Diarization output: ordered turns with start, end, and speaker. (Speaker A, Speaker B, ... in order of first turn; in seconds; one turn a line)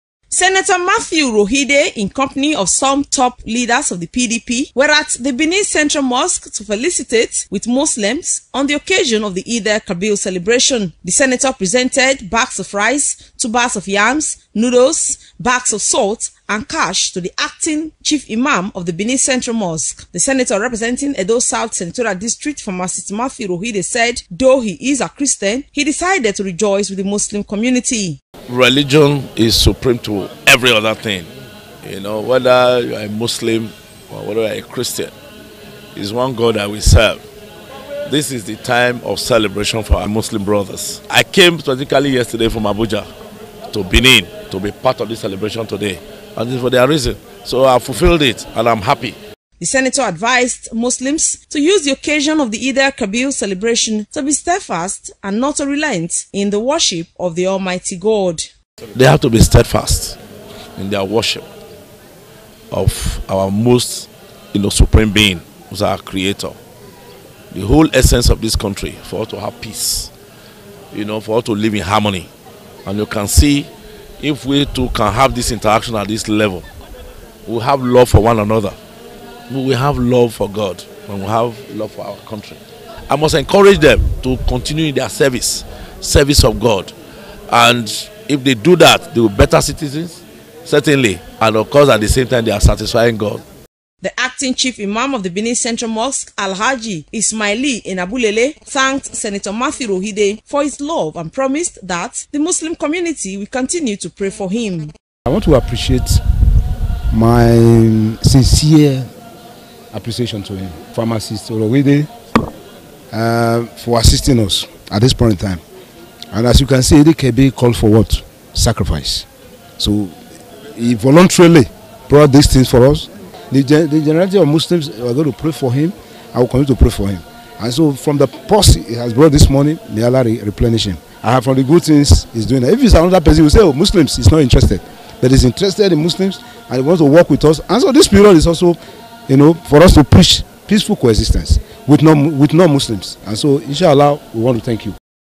Speaker A: 0.3-28.2
Speaker B: 28.5-31.3
Speaker B: 31.8-35.1
Speaker B: 35.9-37.2
Speaker B: 38.0-43.1
Speaker B: 43.7-49.2
Speaker A: 49.6-58.4
Speaker B: 58.9-60.2
Speaker B: 60.8-61.5
Speaker B: 62.7-66.6
Speaker B: 67.5-70.1
Speaker B: 70.9-72.3
Speaker B: 72.8-76.7
Speaker B: 77.5-78.8
Speaker B: 79.5-86.9
Speaker B: 87.5-93.4
Speaker A: 94.0-104.9
Speaker C: 105.3-106.2
Speaker C: 107.1-109.1
Speaker C: 109.9-112.1
Speaker C: 113.1-115.6
Speaker C: 116.3-119.2
Speaker C: 119.8-120.1
Speaker C: 120.7-144.9